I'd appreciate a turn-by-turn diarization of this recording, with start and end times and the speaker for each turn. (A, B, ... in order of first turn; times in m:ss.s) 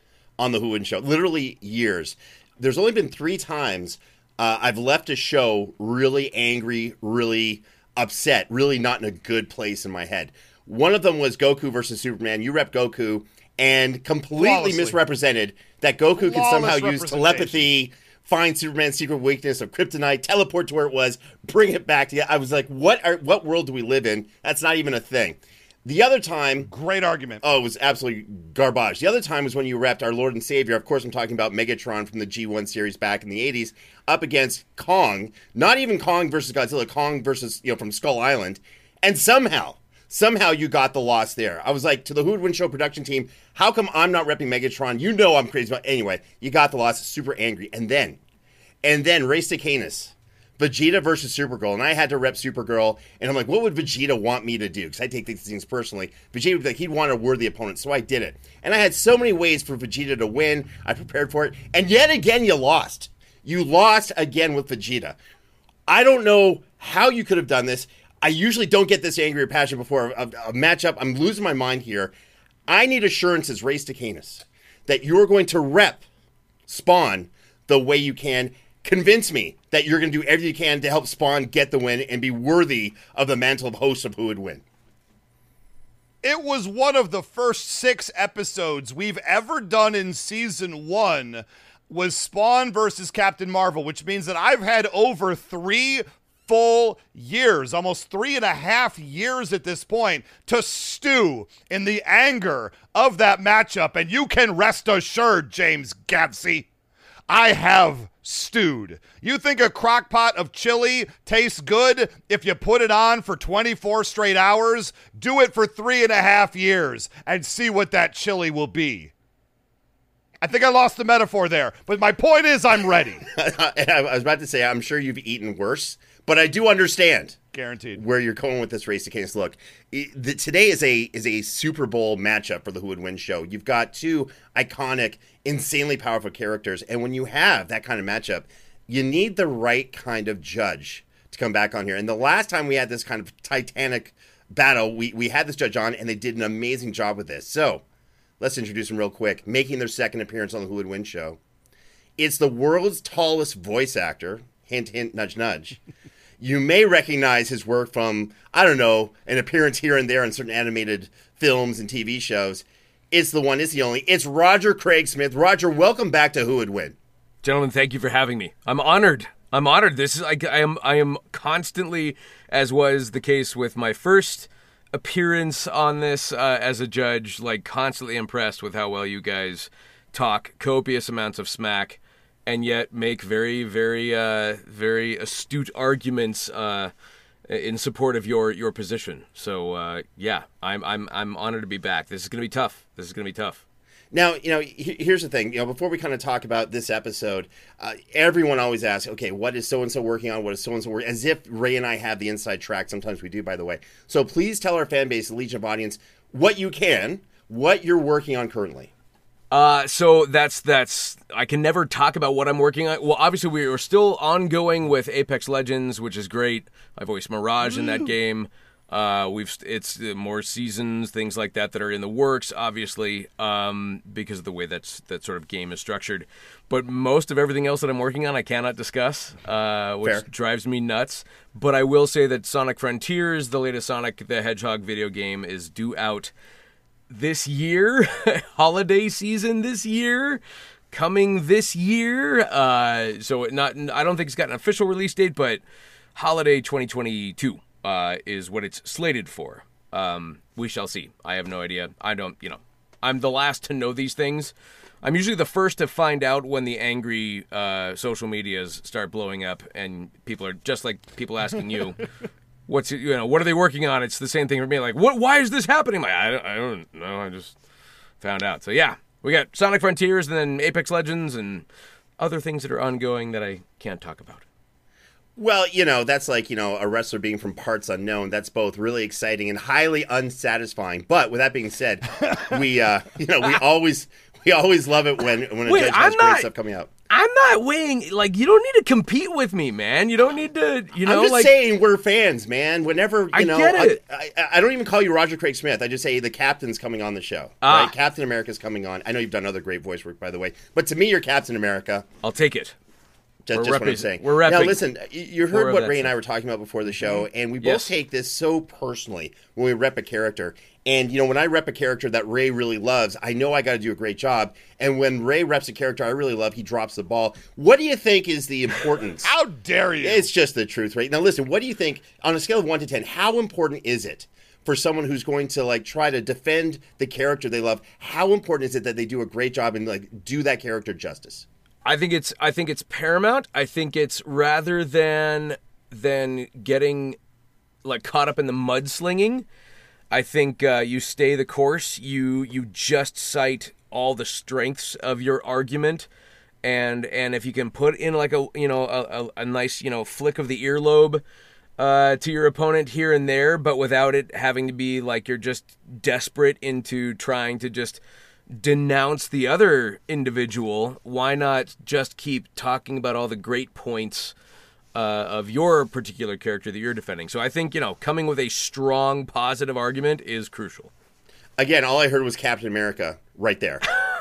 0:00.4-0:26.7 A
0:14.4-0:15.0 B
0:16.2-0:17.7 B
0:26.6-0:27.4 B
0:27.4-0:48.2 A
0:48.8-1:05.2 A
1:05.9-1:12.1 A
1:12.7-1:16.0 A
1:16.7-1:24.6 A
1:26.2-1:46.7 B
1:47.3-1:59.1 B
2:00.4-2:03.2 B
2:03.3-2:07.4 A
2:07.5-2:08.0 B
2:08.0-2:27.8 A
2:28.4-2:31.4 A
2:32.2-2:35.8 A
2:36.4-2:47.0 A
2:47.4-3:06.9 C
3:07.5-3:13.6 C
3:14.1-3:28.9 A
3:29.5-3:56.3 C
3:57.1-4:05.6 C
4:06.2-4:22.1 C
4:22.7-4:27.6 C
4:28.2-4:31.7 C
4:32.2-4:34.4 C
4:35.4-4:46.9 A
4:45.6-4:46.5 C
4:47.1-4:51.5 C
4:51.0-5:02.1 A
4:53.3-4:54.0 C
4:57.6-4:57.9 C
5:02.2-5:02.8 C
5:03.4-5:19.3 A
5:03.5-5:04.8 C
5:05.5-5:06.1 C
5:07.0-5:07.9 C
5:19.2-5:20.3 B
5:20.0-5:31.4 A
5:31.8-5:37.2 C
5:37.8-5:39.5 C
5:40.1-5:46.1 C
5:46.6-5:51.2 C
5:51.8-5:58.0 C
5:58.5-6:04.3 C
6:04.9-6:10.9 C
6:11.6-6:13.9 A